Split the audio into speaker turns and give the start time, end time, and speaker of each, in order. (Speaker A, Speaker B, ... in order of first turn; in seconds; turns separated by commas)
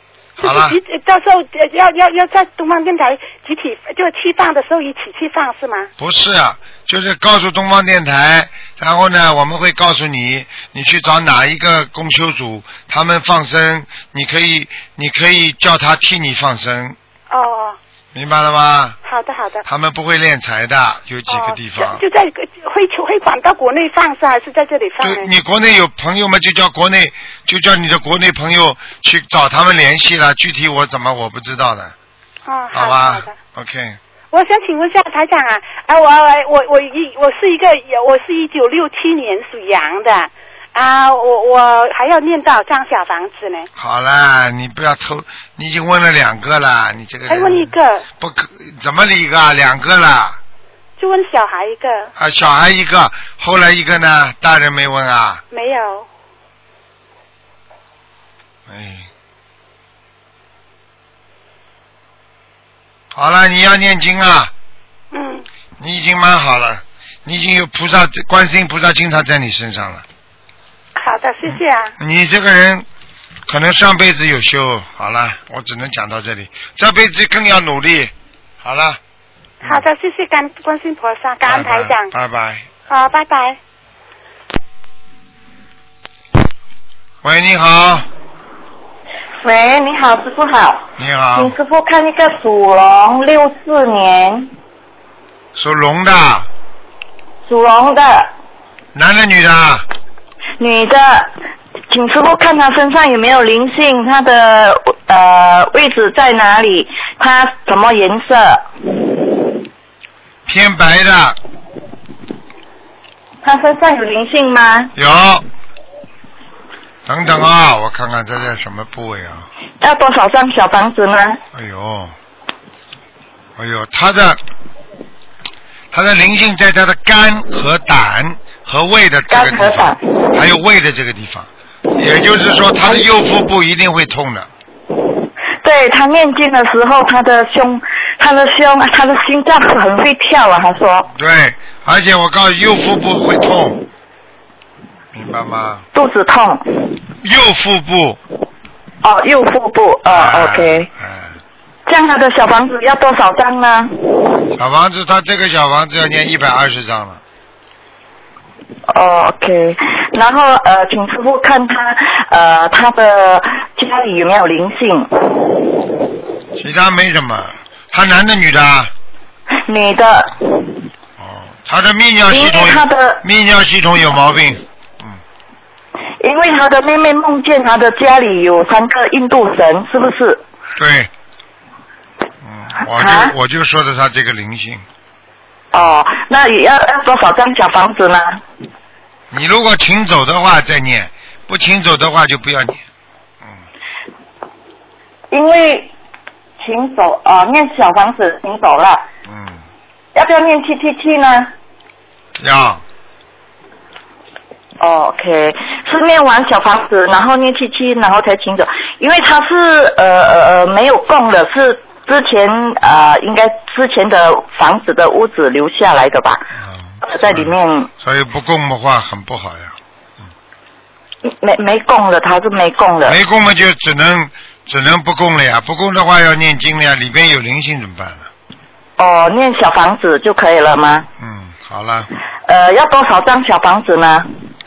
Speaker A: 0.4-0.8, Speaker B: 0.4-5.9, Speaker A: 6.0-17.0, Speaker B: 17.3-17.8, Speaker A: 18.1-19.0, Speaker B: 19.1-19.6, Speaker A: 19.6-22.0, Speaker B: 21.3-25.3, Speaker A: 25.0-31.9, Speaker B: 32.5-33.4, Speaker A: 32.7-34.0, Speaker B: 34.3-43.7, Speaker A: 43.8-50.4, Speaker B: 47.3-48.1, Speaker B: 51.0-52.1, Speaker A: 52.2-55.4, Speaker B: 55.5-56.1, Speaker A: 58.7-59.1, Speaker A: 63.1-64.5, Speaker B: 65.1-65.5, Speaker A: 65.8-70.0, Speaker B: 71.0-71.9, Speaker A: 71.5-72.9, Speaker A: 73.5-79.0, Speaker B: 79.6-82.1, Speaker A: 81.5-82.7, Speaker B: 82.9-83.6, Speaker A: 87.2-88.1, Speaker C: 89.4-94.5, Speaker A: 91.0-91.5, Speaker A: 95.5-96.5, Speaker C: 97.5-98.3, Speaker A: 98.9-99.8, Speaker C: 100.6-101.3, Speaker C: 101.9-108.7, Speaker A: 110.5-111.4, Speaker C: 113.4-114.9, Speaker A: 115.0-115.5, Speaker A: 117.1-119.5, Speaker C: 119.8-121.4, Speaker A: 121.5-122.2, Speaker A: 123.6-124.4, Speaker A: 125.9-134.5, Speaker C: 129.3-130.0, Speaker C: 135.6-141.1, Speaker A: 141.1-143.8, Speaker A: 145.1-145.8, Speaker C: 145.9-146.6, Speaker A: 147.2-148.2, Speaker C: 149.0-150.9, Speaker A: 150.1-151.4, Speaker C: 151.9-153.9, Speaker A: 154.6-157.2, Speaker C: 158.9-165.6, Speaker A: 166.6-168.9, Speaker C: 169.7-170.8, Speaker A: 171.2-175.2, Speaker C: 172.3-173.2, Speaker C: 176.2-180.4, Speaker A: 180.8-181.1, Speaker A: 182.4-184.8, Speaker C: 182.9-183.3, Speaker C: 185.7-188.4, Speaker A: 189.3-192.8, Speaker C: 195.3-195.9, Speaker C: 196.6-199.1, Speaker A: 199.3-199.6, Speaker C: 200.2-201.5, Speaker A: 202.4-202.8, Speaker C: 204.8-216.5, Speaker A: 216.6-219.8, Speaker C: 217.0-217.9, Speaker C: 221.2-223.2, Speaker A: 223.1-228.3, Speaker C: 229.0-231.1, Speaker A: 231.2-232.1, Speaker C: 232.5-234.3